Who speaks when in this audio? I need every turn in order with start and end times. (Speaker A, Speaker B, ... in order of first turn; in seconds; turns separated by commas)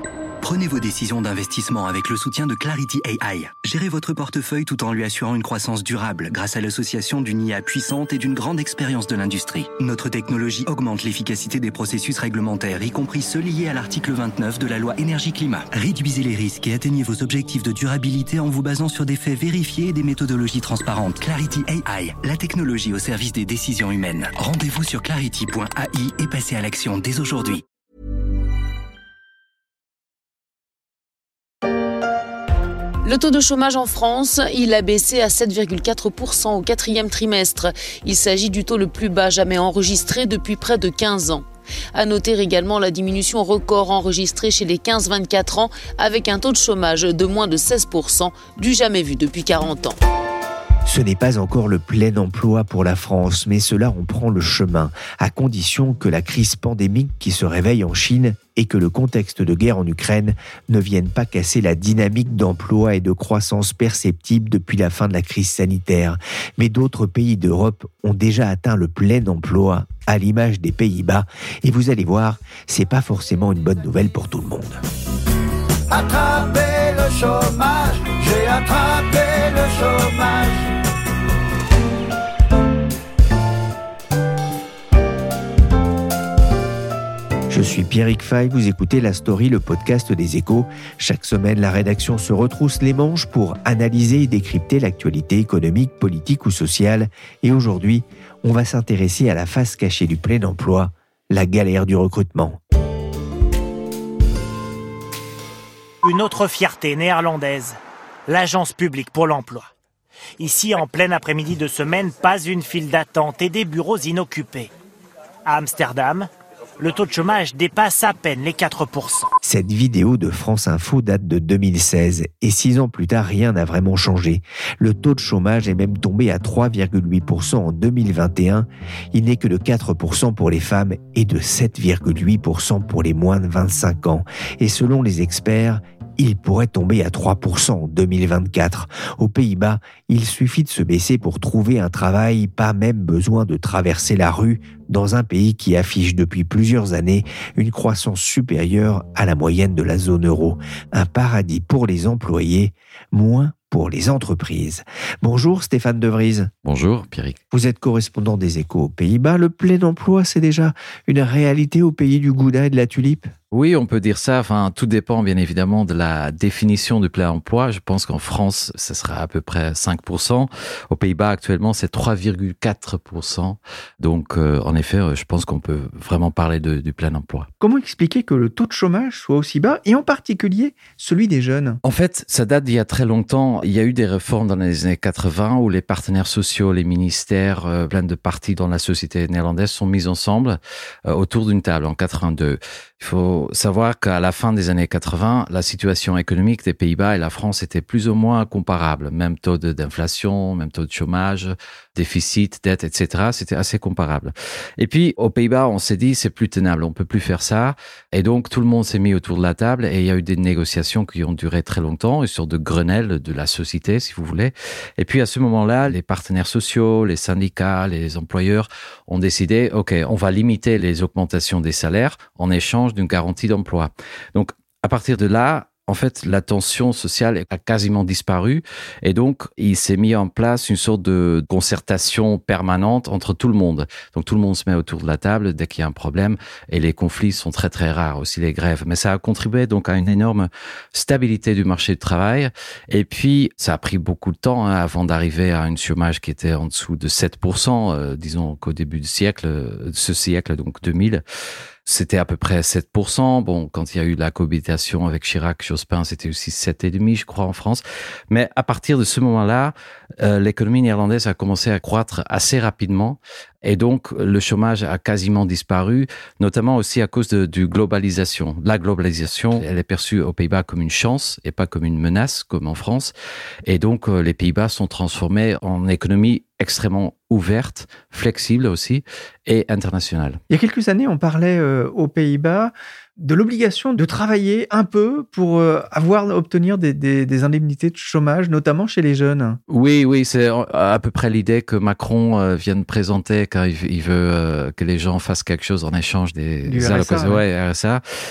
Speaker A: 0.4-27.6, Speaker B: 33.0-50.0, Speaker C: 50.8-74.8, Speaker D: 75.9-80.7, Speaker C: 87.5-102.6, Speaker E: 106.0-109.7, Speaker E: 110.4-114.7, Speaker E: 115.5-119.3, Speaker C: 119.4-156.5, Speaker F: 156.6-157.4, Speaker C: 157.5-163.3, Speaker F: 163.5-177.5, Speaker G: 177.6-181.8, Speaker F: 181.8-251.2, Speaker F: 251.8-273.1, Speaker F: 273.6-280.4, Speaker G: 280.5-289.6, Speaker F: 289.7-298.0, Speaker G: 296.6-297.4